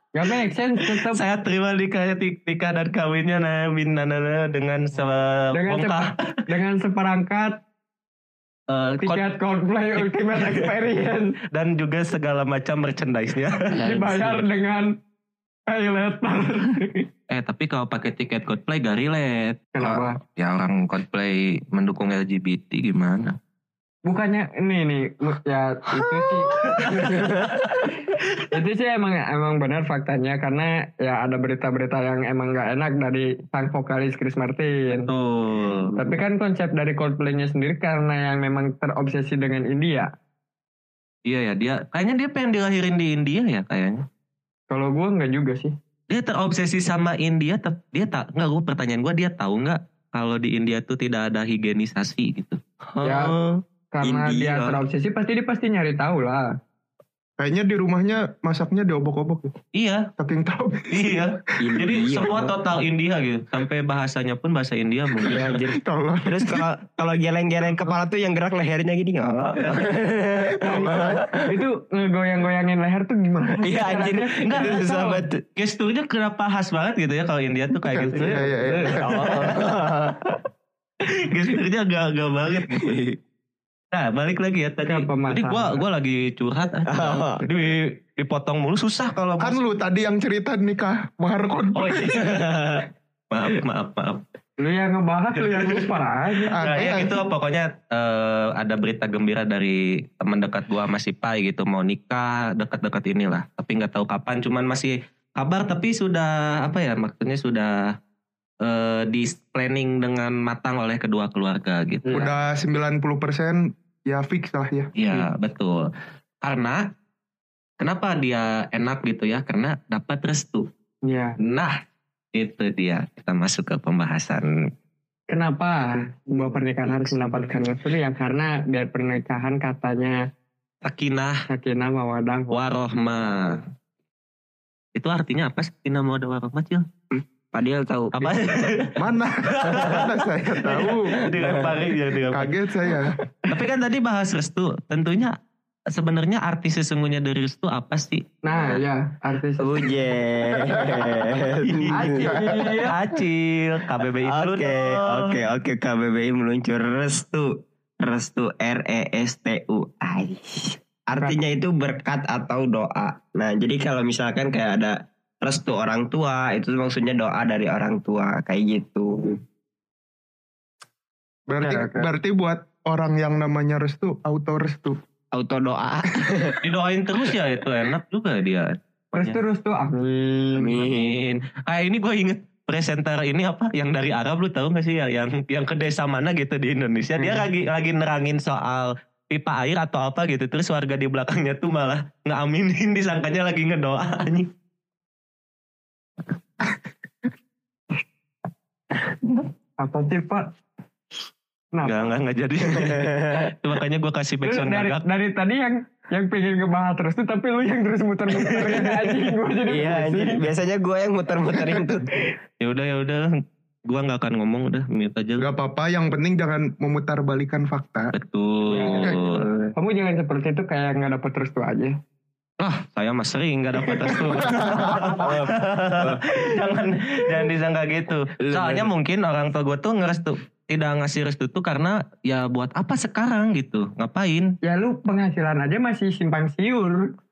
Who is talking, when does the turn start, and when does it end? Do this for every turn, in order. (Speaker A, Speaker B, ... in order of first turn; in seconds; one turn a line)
Speaker A: 0.1-1.2
Speaker B: 1.0-6.2
Speaker A: 5.5-7.6
Speaker B: 8.7-9.2
Speaker A: 9.0-11.4
Speaker B: 9.9-10.7
Speaker B: 11.5-14.1
Speaker A: 13.7-15.0
Speaker C: 13.9-14.3
Speaker A: 15.7-17.1
Speaker B: 17.3-23.4
Speaker A: 19.8-20.2
Speaker A: 24.1-27.5
Speaker B: 26.6-27.7
Speaker A: 28.5-35.1
Speaker B: 34.9-35.9
Speaker A: 36.0-40.1
Speaker B: 41.2-44.0
Speaker A: 44.7-45.7
Speaker B: 46.1-53.4
Speaker A: 53.0-53.3
Speaker C: 53.1-54.6
Speaker A: 53.9-56.5
Speaker D: 57.4-59.5
Speaker B: 59.7-60.1
Speaker D: 60.2-61.9
Speaker B: 60.9-65.6
Speaker C: 61.6-62.5
Speaker C: 65.3-71.6
Speaker D: 65.5-66.7
Speaker A: 70.6-75.0
Speaker C: 73.6-75.4
Speaker B: 74.4-78.4
Speaker D: 78.0-79.3
Speaker A: 78.1-79.0
Speaker C: 79.0-80.2
Speaker B: 79.1-80.3
Speaker B: 81.0-83.0
Speaker C: 82.6-83.2
Speaker B: 83.9-89.6
Speaker A: 84.9-85.8
Speaker C: 86.9-87.5
Speaker D: 89.4-92.2
Speaker B: 91.8-94.2
Speaker C: 92.2-92.9
Speaker A: 94.6-96.7
Speaker D: 96.5-97.2
Speaker B: 96.5-108.0
Speaker B: 108.6-112.2
Speaker A: 112.1-112.3
Speaker D: 112.1-114.9
Speaker B: 115.0-115.9
Speaker B: 116.4-116.9
Speaker B: 117.8-120.7
Speaker A: 121.0-121.4
Speaker B: 121.4-121.8
Speaker B: 122.3-124.7
Speaker A: 125.3-130.3
Speaker B: 130.8-131.4
Speaker A: 131.5-132.6
Speaker B: 132.5-133.6
Speaker B: 134.9-136.9
Speaker C: 137.1-138.7
Speaker B: 138.2-139.0
Speaker D: 139.0-141.2
Speaker B: 139.6-140.1
Speaker B: 140.8-142.5
Speaker C: 141.1-141.9
Speaker D: 142.3-143.2
Speaker B: 143.5-145.3
Speaker B: 145.9-148.8
Speaker A: 148.4-149.9
Speaker C: 149.6-152.3
Speaker D: 150.7-151.3
Speaker B: 151.6-155.4
Speaker A: 151.9-153.0
Speaker C: 154.2-169.4
Speaker D: 171.5-175.0
Speaker A: 171.6-172.1
Speaker C: 175.3-176.6
Speaker B: 176.6-179.4
Speaker A: 179.1-180.8
Speaker C: 180.6-181.2
Speaker B: 180.8-194.5
Speaker A: 199.8-200.5
Speaker A: 201.7-202.1
Speaker B: 201.8-205.0
Speaker C: 202.6-203.5
Speaker A: 204.4-210.4
Speaker B: 208.3-209.1
Speaker C: 209.7-212.1
Speaker B: 212.6-213.3
Speaker B: 213.9-215.5
Speaker D: 215.4-218.1
Speaker B: 218.1-219.4
Speaker A: 218.7-219.1
Speaker C: 219.1-219.7
Speaker A: 219.8-222.0
Speaker B: 222.6-234.6
Speaker D: 224.4-225.1
Speaker C: 224.6-226.3
Speaker C: 228.4-228.9
Speaker A: 234.6-237.2